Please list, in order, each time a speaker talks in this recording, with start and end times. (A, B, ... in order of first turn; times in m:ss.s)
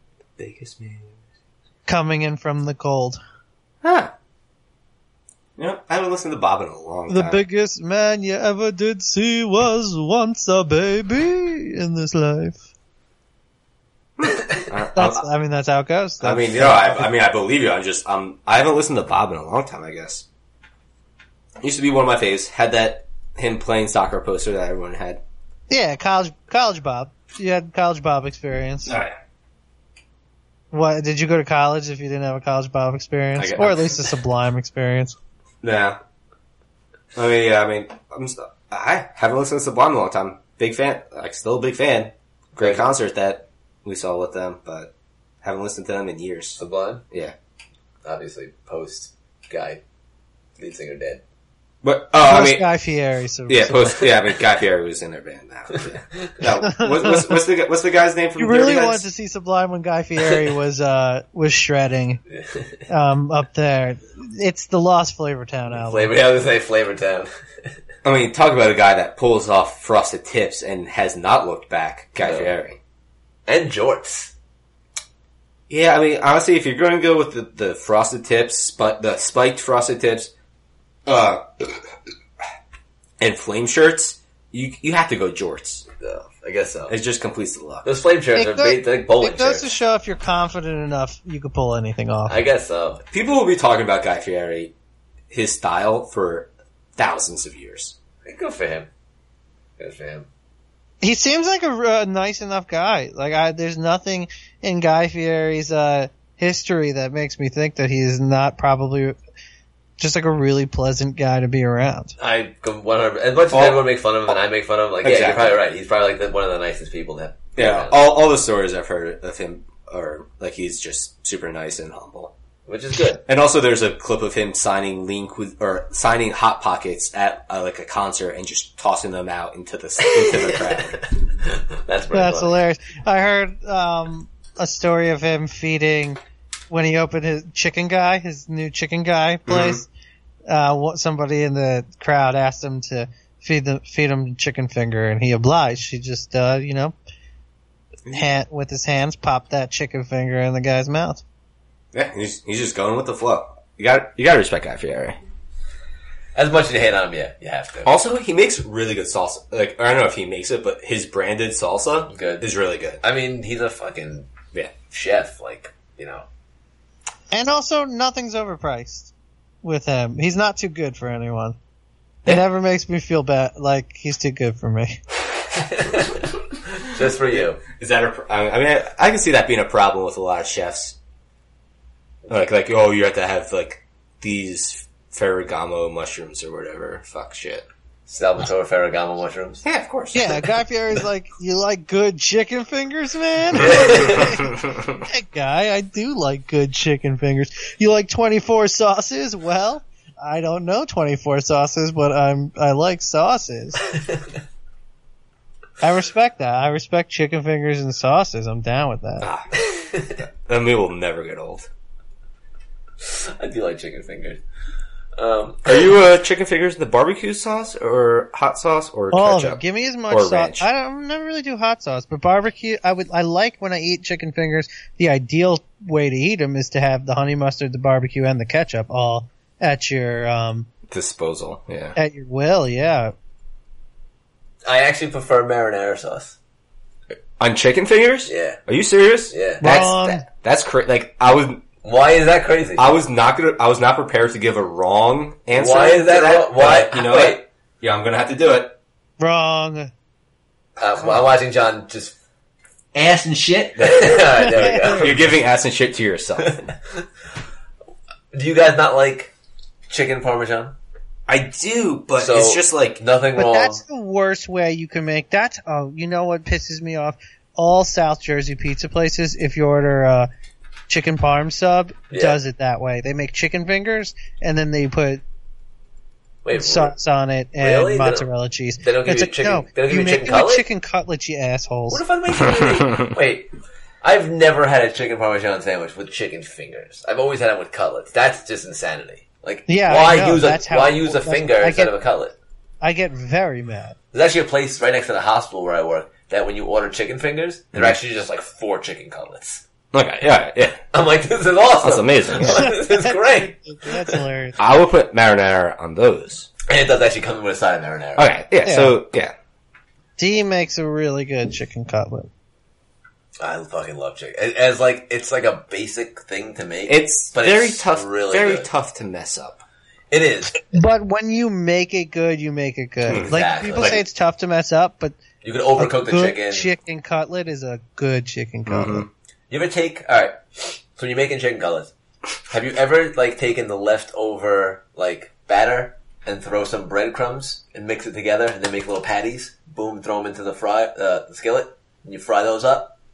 0:00.4-0:01.2 A
0:01.9-0:03.2 B
0:03.8-0:04.1 A
0:05.6-0:07.4 A
0:07.1-0:12.6 B
0:14.2-0:15.2 A
0:14.9-0:17.1 B
0:16.2-0:20.2 A
0:21.6-0:25.2 A
0:25.7-0:29.0 B
0:28.8-0:29.2 A
0:30.7-0:35.2 B
0:33.4-0:34.1 A
0:35.6-0:36.0 A
0:37.1-0:44.9 A
0:42.6-0:42.9 C
0:45.4-0:46.6 A
0:46.6-0:47.0 C
0:48.0-0:49.8 C
0:50.6-0:51.2 C
0:51.8-0:52.7 A
0:52.2-0:54.1 B
0:53.5-0:59.0 A
0:55.7-0:56.3 C
0:56.6-0:57.4 B
0:58.4-1:02.2 B
1:02.4-1:02.8 C
1:02.9-1:06.1 B
1:05.7-1:07.3 C
1:08.0-1:12.8 A
1:12.2-1:12.5 C
1:13.5-1:14.3 C
1:15.7-1:20.3 A
1:21.0-1:21.9 A
1:23.2-1:25.9 A
1:26.0-1:26.9 C
1:26.9-1:27.9 A
1:27.8-1:29.7 C
1:28.3-1:32.4 B
1:32.3-1:33.0 C
1:33.1-1:34.7 A
1:35.3-1:37.9 A
1:38.2-1:38.9 C
1:39.8-1:40.3 C
1:41.0-1:49.2 B
1:50.0-1:52.1 B
1:52.2-1:58.0 C
1:53.5-1:53.9 A
1:55.0-1:55.6 A
1:57.6-2:02.3 A
2:02.7-2:03.2 C
2:03.2-2:11.0 A
2:10.0-2:12.6 C
2:12.1-2:16.2 B
2:16.7-2:19.9 B
2:19.5-2:19.8 A
2:20.5-2:26.9 B
2:28.1-2:31.2 B
2:31.9-2:35.2 A
2:36.3-2:37.9 C
2:37.8-2:43.0 A
2:42.1-2:42.4 C
2:43.0-2:44.3 C
2:44.9-2:46.2 C
2:47.3-2:49.1 B
2:49.6-2:51.6 B
2:52.2-2:55.0 B
2:55.5-2:57.6 C
2:57.7-3:01.0 A
3:02.3-3:07.6 A
3:08.1-3:09.6 C
3:09.6-3:10.5 A
3:10.1-3:23.8 B
3:13.5-3:15.0 A
3:13.6-3:14.3 C
3:25.8-3:29.3 B
3:29.2-3:31.7 A
3:29.5-3:30.2 C
3:33.0-3:34.4 C
3:35.2-3:35.9 C
3:35.6-3:40.7 A
3:39.1-3:50.7 B
3:50.9-3:52.0 A
3:52.0-3:53.1 B
3:54.6-3:56.4 C
3:57.4-4:01.6 A
3:58.3-3:58.6 C
3:59.3-3:59.6 C
3:59.6-4:00.2 B
4:01.8-4:02.9 C
4:02.8-4:08.8 A
4:05.6-4:07.4 C
4:09.2-4:09.9 B
4:10.8-4:12.1 C
4:12.9-4:15.2 C
4:13.8-4:16.6 A
4:14.4-4:15.2 B
4:16.4-4:17.0 C
4:18.3-4:19.3 C
4:19.9-4:20.7 C
4:21.3-4:23.0 A
4:22.2-4:23.8 C
4:23.4-4:30.3 B
4:30.9-4:35.2 B
4:32.1-4:32.4 C
4:36.4-4:36.9 C
4:36.5-4:42.0 B
4:37.6-4:38.3 C
4:38.8-4:40.7 C
4:41.9-4:43.5 C
4:42.6-4:43.1 A
4:44.0-4:52.3 C
4:49.7-4:51.9 B
4:52.8-4:54.0 B
4:54.1-4:59.6 C
4:59.9-5:00.8 A
5:00.9-5:04.2 C
5:01.8-5:02.6 A
5:02.4-5:04.6 B
5:04.6-5:06.5 A
5:06.7-5:08.3 C
5:08.2-5:09.3 A
5:08.6-5:09.0 B
5:10.2-5:12.3 B
5:13.4-5:18.7 C
5:16.9-5:19.6 A
5:20.1-5:20.7 C
5:20.7-5:25.2 B
5:23.0-5:24.0 A
5:23.2-5:24.0 C
5:25.4-5:26.7 C
5:25.8-5:29.1 B
5:28.6-5:29.1 A
5:29.5-5:31.9 C
5:32.4-5:42.9 C